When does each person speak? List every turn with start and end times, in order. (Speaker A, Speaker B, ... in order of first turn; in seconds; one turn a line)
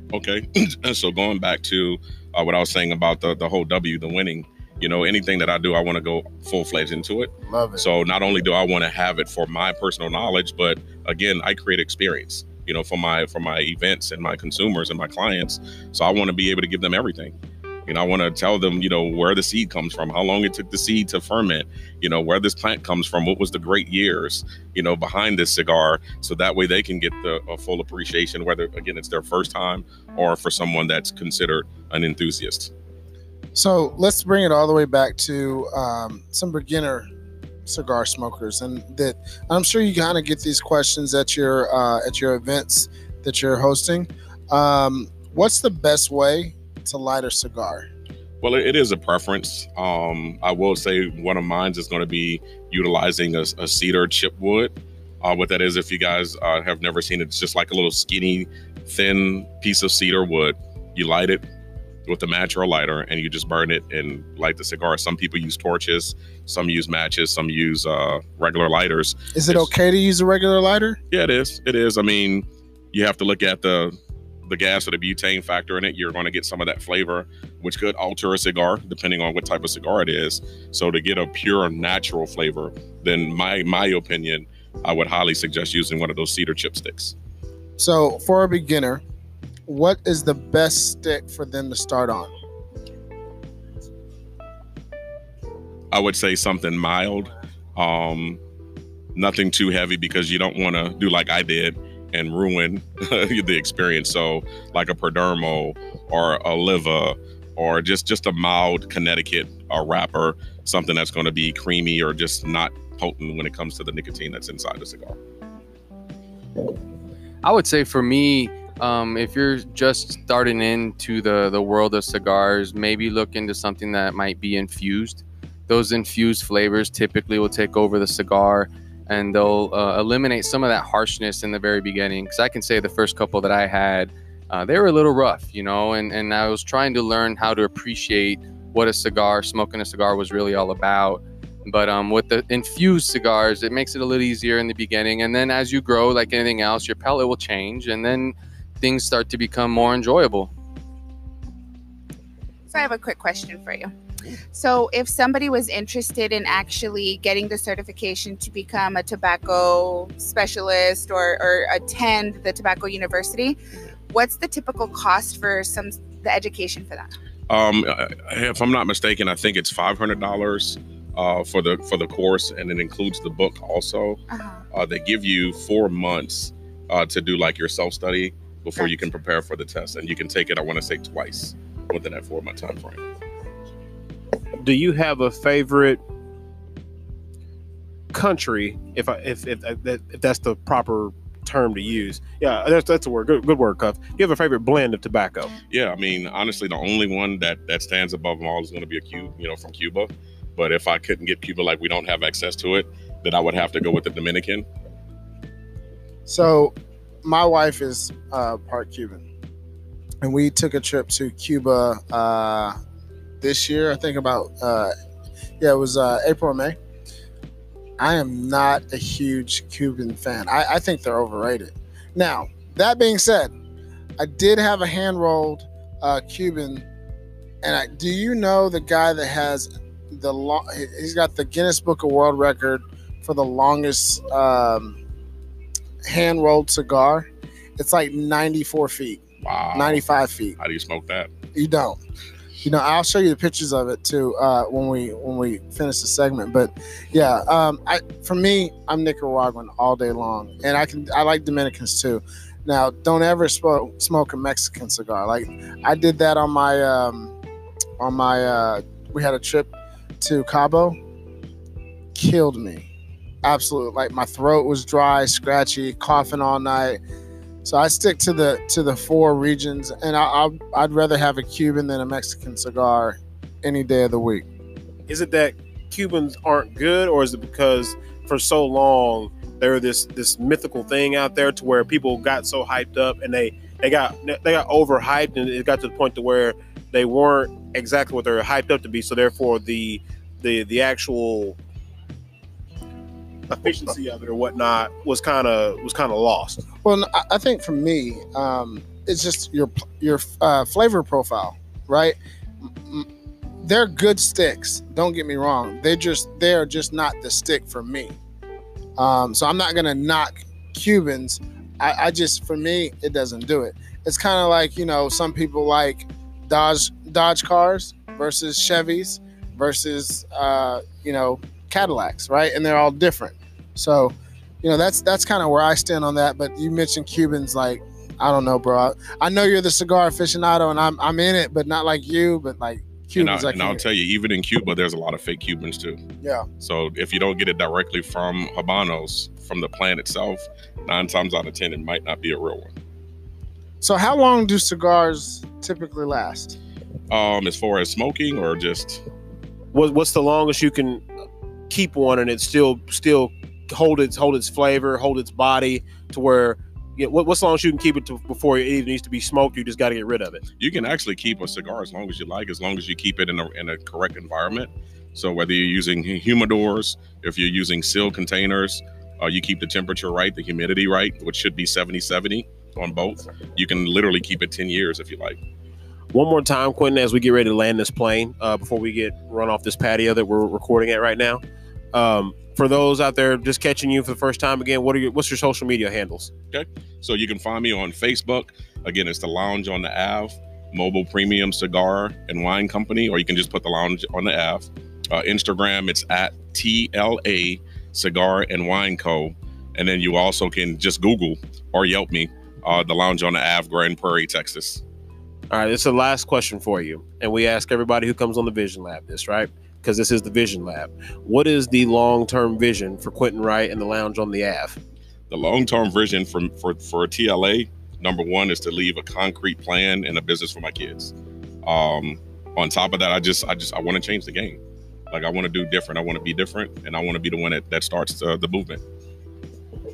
Speaker A: 0.1-17.3
Speaker B: 7.5-7.8
Speaker A: 17.9-32.7
Speaker B: 33.5-37.1
Speaker B: 37.6-47.9
Speaker A: 48.4-61.4
Speaker A: 62.0-69.7
Speaker B: 69.3-71.0
Speaker A: 71.1-87.1
Speaker B: 87.8-89.0
Speaker B: 89.7-92.3
Speaker A: 95.9-98.4
Speaker A: 99.1-115.2
Speaker C: 117.4-150.5
Speaker D: 152.7-153.9
Speaker D: 154.5-163.6
Speaker D: 164.1-167.1
Speaker A: 167.5-174.2
Speaker D: 174.3-174.6
Speaker A: 174.7-183.0
Speaker E: 184.6-186.0
Speaker E: 188.1-195.5
Speaker A: 195.7-204.7
Speaker B: 206.2-209.2
Speaker B: 210.2-212.8
Speaker B: 213.4-214.9
Speaker B: 215.6-216.8
Speaker B: 218.0-223.5
Speaker B: 224.2-226.8
Speaker B: 227.6-235.0
Speaker B: 236.0-239.2
Speaker A: 239.4-240.0
Speaker B: 239.7-240.6
Speaker A: 240.6-241.3
Speaker B: 241.5-242.0
Speaker B: 242.6-257.3
Speaker B: 258.0-259.7
Speaker B: 260.2-261.0
Speaker B: 262.1-262.9
Speaker B: 263.4-267.0
Speaker B: 267.6-274.4
Speaker E: 275.1-291.6
Speaker E: 293.5-296.6
Speaker B: 296.8-302.1
Speaker B: 303.6-308.1
Speaker B: 309.0-333.8
Speaker A: 333.1-336.0
Speaker B: 336.2-336.5
Speaker A: 336.6-342.7
Speaker B: 343.8-346.6
Speaker A: 347.1-349.1
Speaker E: 349.7-351.0
Speaker E: 351.7-360.4
Speaker A: 360.6-375.4
Speaker E: 376.1-381.4
Speaker E: 381.9-386.3
Speaker A: 386.5-404.8
Speaker E: 405.5-414.8
Speaker A: 415.3-421.1
Speaker A: 421.6-428.8